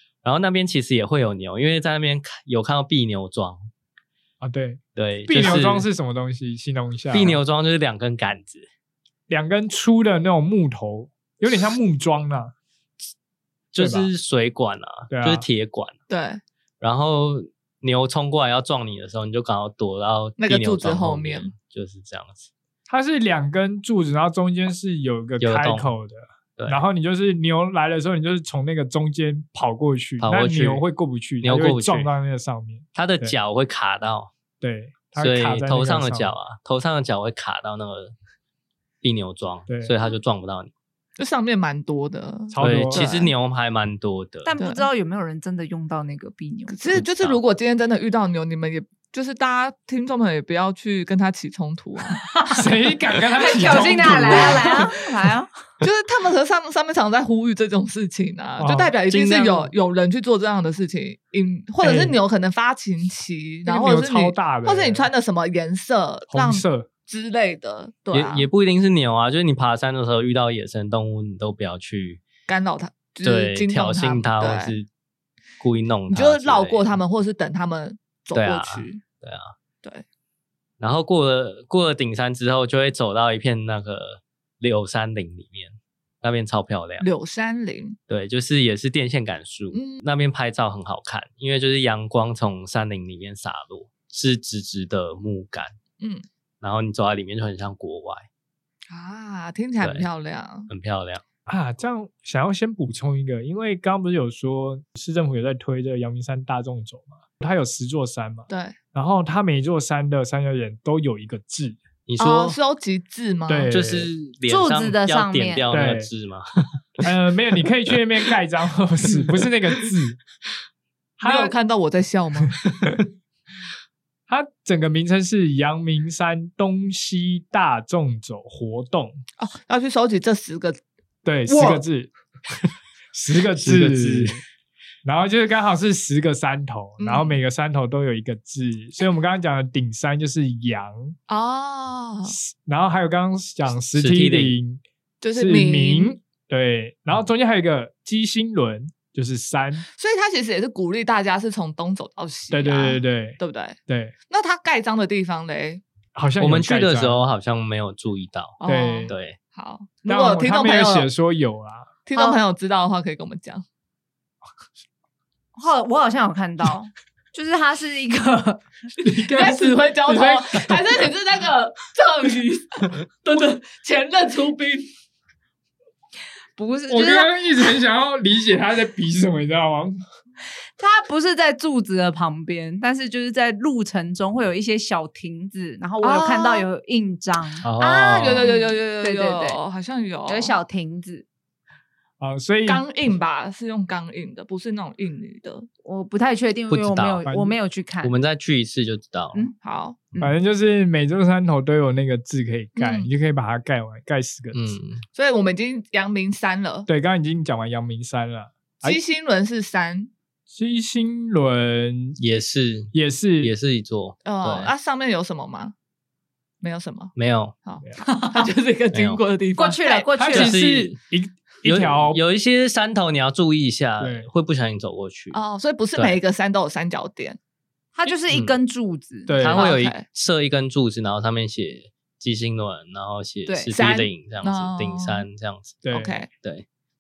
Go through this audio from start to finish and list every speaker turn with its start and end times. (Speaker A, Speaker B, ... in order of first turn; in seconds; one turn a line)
Speaker A: 0.2-3.7
Speaker B: 4.4-7.4
Speaker A: 5.0-5.9
Speaker A: 7.1-8.7
Speaker B: 9.3-12.5
Speaker A: 13.7-16.0
Speaker B: 13.8-14.1
Speaker B: 15.1-15.4
Speaker C: 16.1-16.4
Speaker A: 16.8-22.5
Speaker C: 20.4-21.5
Speaker B: 22.9-33.4
Speaker A: 25.4-25.9
Speaker A: 30.2-30.8
Speaker A: 31.4-32.1
Speaker A: 32.9-34.3
Speaker B: 34.6-36.3
Speaker A: 35.2-38.1
Speaker A: 39.0-40.7
Speaker B: 39.7-39.9
Speaker C: 41.2-43.3
Speaker B: 42.5-43.0
Speaker A: 42.6-44.5
Speaker D: 44.4-47.0
Speaker C: 44.6-44.9
Speaker C: 46.7-52.2
Speaker A: 46.9-47.4
Speaker D: 52.2-52.7
Speaker B: 52.5-54.8
Speaker D: 53.4-55.5
Speaker C: 53.5-54.9
Speaker C: 55.8-68.5
Speaker B: 58.6-58.9
Speaker A: 59.1-59.7
Speaker B: 61.8-62.1
Speaker B: 63.6-65.1
Speaker B: 66.3-66.9
Speaker A: 68.1-72.2
Speaker C: 72.5-74.7
Speaker A: 73.2-74.9
Speaker A: 75.6-76.9
Speaker C: 76.1-79.0
Speaker A: 78.3-79.5
Speaker A: 80.8-87.1
Speaker C: 87.0-88.0
Speaker A: 88.1-95.7
Speaker C: 89.7-90.0
Speaker C: 96.0-96.2
Speaker A: 96.6-98.3
Speaker C: 98.9-100.7
Speaker A: 99.8-100.0
Speaker A: 100.7-101.2
Speaker B: 101.5-111.8
Speaker C: 108.5-108.8
Speaker A: 112.1-112.6
Speaker C: 112.2-113.7
Speaker B: 113.5-114.1
Speaker A: 113.7-117.1
Speaker D: 114.5-115.6
Speaker B: 115.7-116.1
Speaker B: 117.0-120.2
Speaker B: 121.2-121.5
Speaker C: 121.2-122.6
Speaker B: 124.3-129.2
Speaker C: 129.4-130.8
Speaker B: 131.2-132.1
Speaker C: 131.5-131.8
Speaker B: 133.1-134.4
Speaker A: 133.6-134.4
Speaker B: 135.0-141.2
Speaker C: 137.0-137.4
Speaker C: 141.3-142.3
Speaker B: 142.3-144.8
Speaker A: 143.9-144.6
Speaker C: 145.2-146.2
Speaker B: 145.3-149.8
Speaker C: 149.9-153.8
Speaker B: 152.5-154.1
Speaker C: 154.3-155.8
Speaker B: 156.1-157.2
Speaker A: 156.4-159.4
Speaker C: 158.6-161.1
Speaker B: 158.6-159.1
Speaker B: 160.1-161.9
Speaker C: 162.1-163.6
Speaker D: 162.1-162.4
Speaker D: 165.6-168.6
Speaker B: 169.0-170.8
Speaker C: 169.3-174.9
Speaker D: 176.6-177.3
Speaker B: 176.9-180.0
Speaker D: 180.8-187.7
Speaker C: 186.0-186.7
Speaker A: 187.6-188.5
Speaker C: 187.8-190.6
Speaker D: 188.3-189.6
Speaker D: 190.3-191.2
Speaker B: 192.2-192.8
Speaker C: 192.7-195.7
Speaker D: 195.8-198.1
Speaker A: 196.7-197.2
Speaker B: 197.2-197.6
Speaker A: 198.0-199.5
Speaker C: 199.6-200.0
Speaker B: 200.2-204.7
Speaker C: 202.8-203.1
Speaker A: 204.5-205.0
Speaker C: 205.1-206.9
Speaker B: 206.8-209.0
Speaker C: 208.8-210.1
Speaker B: 210.5-212.2
Speaker A: 212.2-214.7
Speaker B: 212.9-213.5
Speaker C: 214.2-215.7
Speaker C: 216.6-220.1
Speaker A: 217.2-217.5
Speaker D: 218.0-218.5
Speaker A: 218.9-219.2
Speaker D: 219.6-220.6
Speaker B: 220.2-222.2
Speaker A: 220.3-221.0
Speaker A: 221.6-225.4
Speaker B: 224.0-224.3
Speaker C: 225.3-227.4
Speaker D: 227.9-229.3
Speaker A: 228.3-228.6
Speaker B: 229.3-229.8
Speaker A: 229.3-235.8
Speaker C: 229.5-230.0
Speaker C: 233.7-235.2
Speaker B: 235.8-236.2
Speaker C: 235.9-236.3